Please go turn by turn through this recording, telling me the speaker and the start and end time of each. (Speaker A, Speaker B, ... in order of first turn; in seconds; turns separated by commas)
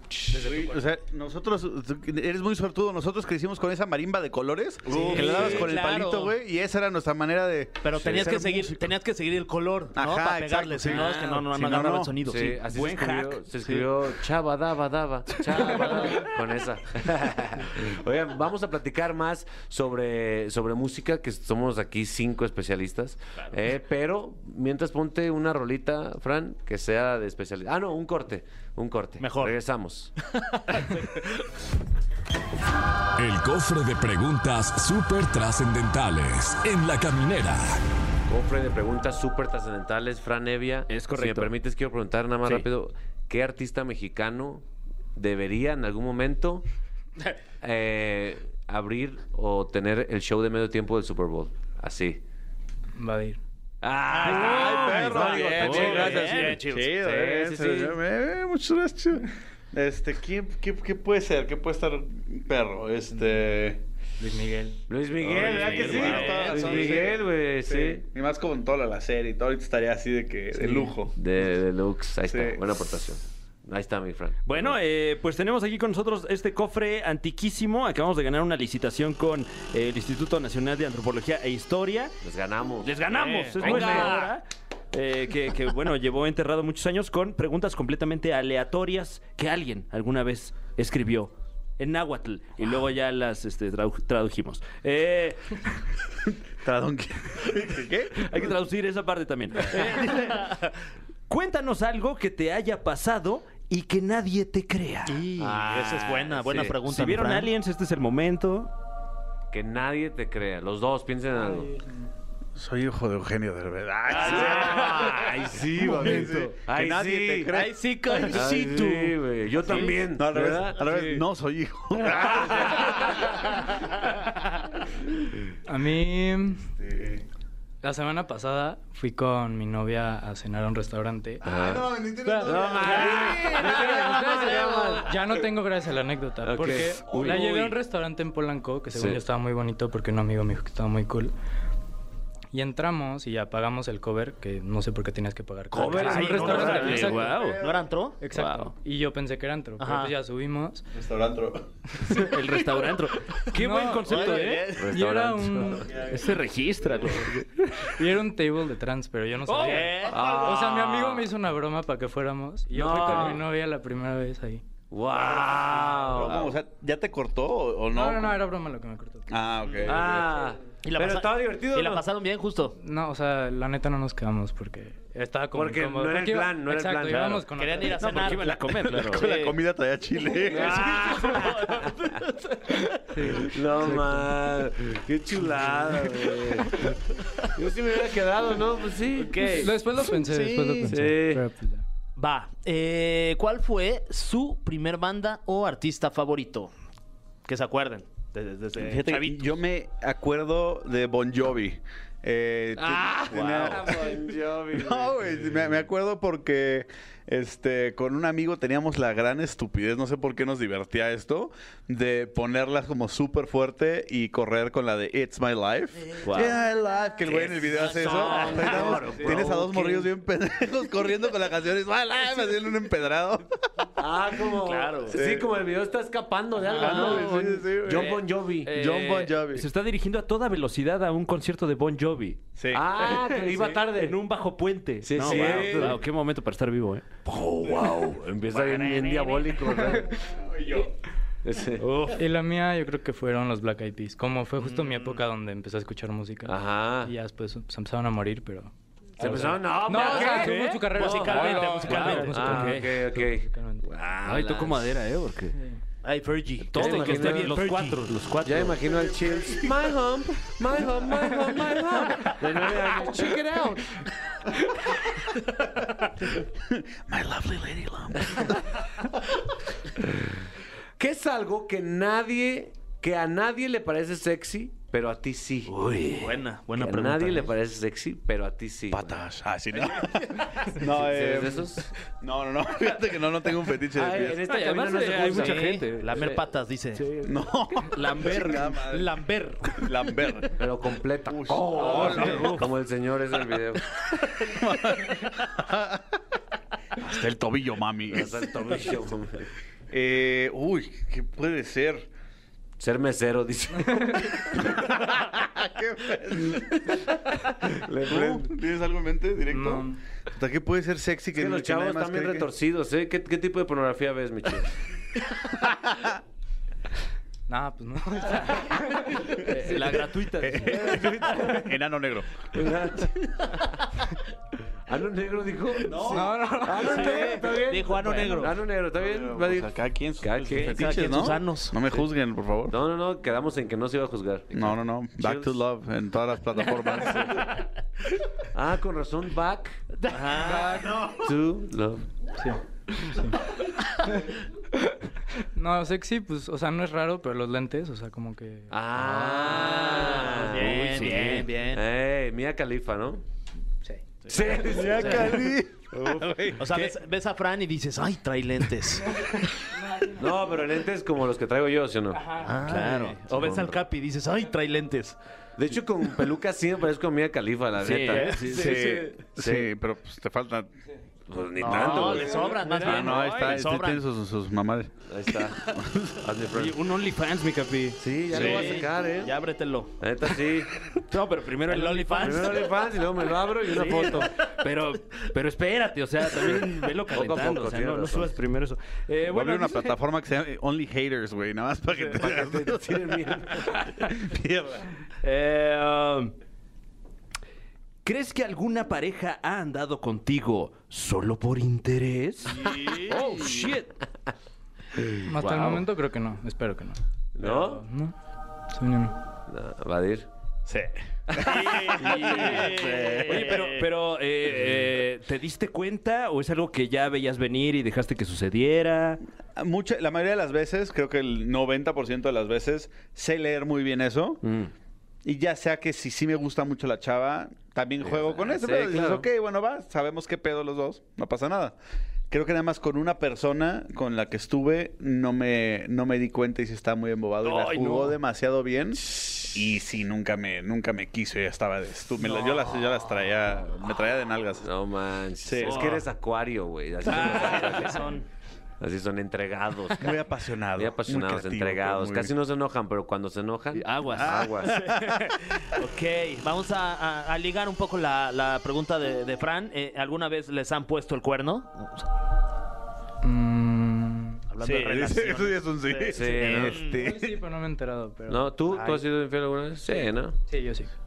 Speaker A: 0.1-8.9, Speaker B: 0.3-0.8, Speaker C: 4.9-6.4, Speaker D: 5.1-5.4, Speaker C: 7.8-12.6, Speaker A: 9.9-12.2, Speaker D: 10.9-11.4, Speaker E: 12.2-30.1, Speaker D: 12.5-13.9, Speaker C: 29.2-29.6, Speaker C: 30.2-31.3, Speaker F: 33.2-37.8, Speaker E: 38.3-46.6, Speaker D: 40.9-41.5, Speaker E: 47.6-52.2, Speaker B: 53.0-53.4, Speaker E: 53.8-58.0, Speaker C: 54.1-56.9, Speaker A: 54.2-63.8, Speaker D: 55.6-56.1, Speaker B: 64.2-64.8, Speaker E: 64.9-68.0, Speaker A: 65.3-71.1, Speaker C: 65.4-67.0, Speaker D: 65.4-66.5, Speaker E: 71.2-74.8, Speaker A: 72.2-72.6, Speaker D: 74.5-82.1, Speaker E: 82.2-84.2, Speaker D: 82.8-95.5, Speaker C: 83.1-84.3, Speaker A: 96.6-98.5, Speaker D: 98.1-100.7, Speaker D: 101.3-105.6, Speaker C: 105.1-107.5, Speaker E: 105.4-106.8, Speaker D: 106.6-108.7, Speaker E: 109.5-111.7, Speaker A: 112.5-118.5, Speaker C: 114.1-115.3, Speaker E: 114.2-117.6, Speaker C: 115.9-116.2, Speaker C: 117.5-119.9, Speaker E: 118.3-120.8, Speaker A: 119.7-123.7, Speaker C: 120.9-121.2, Speaker E: 122.7-123.0, Speaker B: 125.6-126.7, Speaker A: 126.8-127.2, Speaker B: 127.8-131.4, Speaker E: 131.4-135.4, Speaker A: 131.4-133.7, Speaker B: 132.2-141.3, Speaker E: 136.4-137.8, Speaker E: 138.9-139.2, Speaker B: 142.5-147.4, Speaker E: 145.7-147.3, Speaker C: 145.8-148.2, Speaker D: 146.1-147.6, Speaker A: 146.6-147.8, Speaker B: 148.2-150.8, Speaker D: 148.3-148.7, Speaker C: 149.8-150.1, Speaker A: 150.9-152.3, Speaker D: 152.1-154.7, Speaker B: 153.5-154.3, Speaker C: 154.1-154.9, Speaker E: 154.7-155.9, Speaker B: 154.9-155.9, Speaker A: 155.8-157.3, Speaker D: 156.0-157.9, Speaker B: 157.8-164.6, Speaker D: 159.5-159.9, Speaker C: 159.5-160.2, Speaker E: 160.1-161.3, Speaker E: 162.7-163.4, Speaker E: 164.9-166.5, Speaker A: 165.5-168.4, Speaker B: 167.9-169.3, Speaker A: 169.3-170.4, Speaker C: 169.6-170.0, Speaker E: 169.8-172.0, Speaker C: 170.8-172.8, Speaker B: 172.8-178.3, Speaker E: 175.5-177.4, Speaker D: 177.1-179.3, Speaker C: 177.6-179.6, Speaker A: 178.9-180.9, Speaker C: 180.4-182.3, Speaker E: 180.5-182.2, Speaker B: 182.9-184.3, Speaker E: 183.2-186.9, Speaker E: 187.5-189.6, Speaker C: 189.2-190.9, Speaker B: 189.6-191.8, Speaker E: 190.8-191.4, Speaker C: 192.2-196.7, Speaker C: 197.4-199.5, Speaker A: 198.8-223.5, Speaker E: 202.7-205.6, Speaker D: 203.3-203.7, Speaker D: 216.2-216.6, Speaker E: 217.2-220.1, Speaker C: 217.7-219.4, Speaker E: 224.0-228.8, Speaker C: 224.6-225.2, Speaker A: 225.1-225.5, Speaker C: 226.7-227.2, Speaker A: 226.7-229.7, Speaker D: 226.8-227.7, Speaker D: 228.7-232.4, Speaker A: 232.6-233.1, Speaker E: 232.7-234.2, Speaker D: 233.5-237.1, Speaker E: 235.0-236.0, Speaker E: 237.2-240.2, Speaker C: 238.7-239.3, Speaker A: 240.3-240.9, Speaker E: 241.4-241.9, Speaker D: 241.8-242.2, Speaker B: 242.1-248.7, Speaker E: 244.6-245.2, Speaker E: 246.4-247.1, Speaker E: 249.2-250.6, Speaker A: 249.2-249.5, Speaker D: 249.2-252.9, Speaker B: 249.7-253.8, Speaker C: 250.9-252.4, Speaker E: 252.3-255.0, Speaker D: 254.2-255.6, Speaker C: 256.0-258.0, Speaker D: 256.7-258.8, Speaker E: 256.7-264.1, Speaker A: 258.9-259.6, Speaker A: 266.4-268.8, Speaker E: 270.0-270.5, Speaker E: 271.0-275.7, Speaker D: 275.7-276.4, Speaker C: 276.1-277.5, Speaker E: 276.7-279.2, Speaker A: 278.9-284.4, Speaker E: 280.7-281.9, Speaker E: 283.9-285.8, Speaker D: 284.4-288.8, Speaker C: 285.2-287.0, Speaker A: 287.2-289.2, Speaker C: 288.2-289.8, Speaker A: 289.8-290.6, Speaker E: 290.6-293.9, Speaker A: 291.3-292.7, Speaker D: 291.9-292.5, Speaker C: 292.1-292.5, Speaker A: 294.1-296.0, Speaker A: 297.0-298.9, Speaker E: 298.1-299.5, Speaker A: 299.9-302.1, Speaker E: 302.8-304.6, Speaker B: 303.9-304.2, Speaker A: 304.5-312.5, Speaker E: 307.7-308.5, Speaker B: 309.5-310.0, Speaker E: 311.3-314.7, Speaker A: 315.6-316.1, Speaker B: 317.5-320.0, Speaker D: 319.4-320.9, Speaker A: 320.4-322.4, Speaker E: 320.6-321.7, Speaker E: 322.5-323.9, Speaker E: 324.9-331.0, Speaker A: 325.9-326.3, Speaker B: 326.1-327.4, Speaker C: 326.9-328.6, Speaker A: 328.9-332.7, Speaker C: 330.6-331.8, Speaker E: 332.7-335.6, Speaker A: 334.5-337.6, Speaker E: 336.9-337.5, Speaker E: 338.5-339.8, Speaker C: 340.1-340.8, Speaker B: 340.4-341.0, Speaker E: 341.0-342.1, Speaker B: 342.4-343.4, Speaker B: 344.0-348.7, Speaker E: 348.7-353.2, Speaker D: 349.1-351.5, Speaker C: 349.4-351.8, Speaker B: 353.8-354.8, Speaker E: 354.3-356.6, Speaker A: 354.6-356.5, Speaker C: 356.6-359.2, Speaker B: 359.1-360.4, Speaker E: 360.1-362.2, Speaker B: 362.1-362.6, Speaker C: 362.4-365.2, Speaker D: 362.6-363.2, Speaker E: 363.3-363.8, Speaker E: 365.6-368.6, Speaker D: 367.8-369.2, Speaker A: 368.1-370.7, Speaker E: 369.4-369.7, Speaker E: 371.3-373.3, Speaker C: 371.6-374.0, Speaker A: 371.6-376.2, Speaker D: 372.7-373.6, Speaker E: 375.1-376.9, Speaker D: 376.5-378.6, Speaker E: 378.0-379.3, Speaker C: 378.3-380.0, Speaker A: 378.3-378.8, Speaker E: 380.0-380.7, Speaker D: 381.0-382.7, Speaker C: 381.6-382.7, Speaker E: 382.2-384.3, Speaker D: 383.6-389.9, Speaker E: 386.3-388.4, Speaker A: 389.2-395.0, Speaker E: 391.9-394.1, Speaker D: 395.2-396.3, Speaker D: 398.0-403.9, Speaker E: 402.8-403.5, Speaker B: 405.2-408.1, Speaker D: 405.4-405.8, Speaker E: 407.3-407.8, Speaker B: 408.7-409.1, Speaker E: 409.5-410.3, Speaker A: 411.4-413.6, Speaker D: 411.5-419.2, Speaker C: 412.0-413.8, Speaker A: 419.6-424.4, Speaker D: 424.4-424.7, Speaker A: 425.2-431.8, Speaker E: 428.0-429.3, Speaker A: 432.3-444.7, Speaker D: 437.4-438.2, Speaker E: 444.6-448.1, Speaker A: 445.4-446.0, Speaker D: 445.7-446.0, Speaker D: 447.1-448.2, Speaker C: 447.3-448.1, Speaker E: 448.8-450.1, Speaker A: 450.0-452.3, Speaker E: 450.7-454.8, Speaker D: 453.7-455.4, Speaker A: 454.1-455.2, Speaker C: 455.7-462.1, Speaker B: 463.2-464.4, Speaker C: 464.5-467.0, Speaker A: 464.6-467.4, Speaker E: 466.1-466.8, Speaker B: 467.0-468.4, Speaker E: 468.3-470.4, Speaker C: 468.7-469.0, Speaker B: 470.5-470.9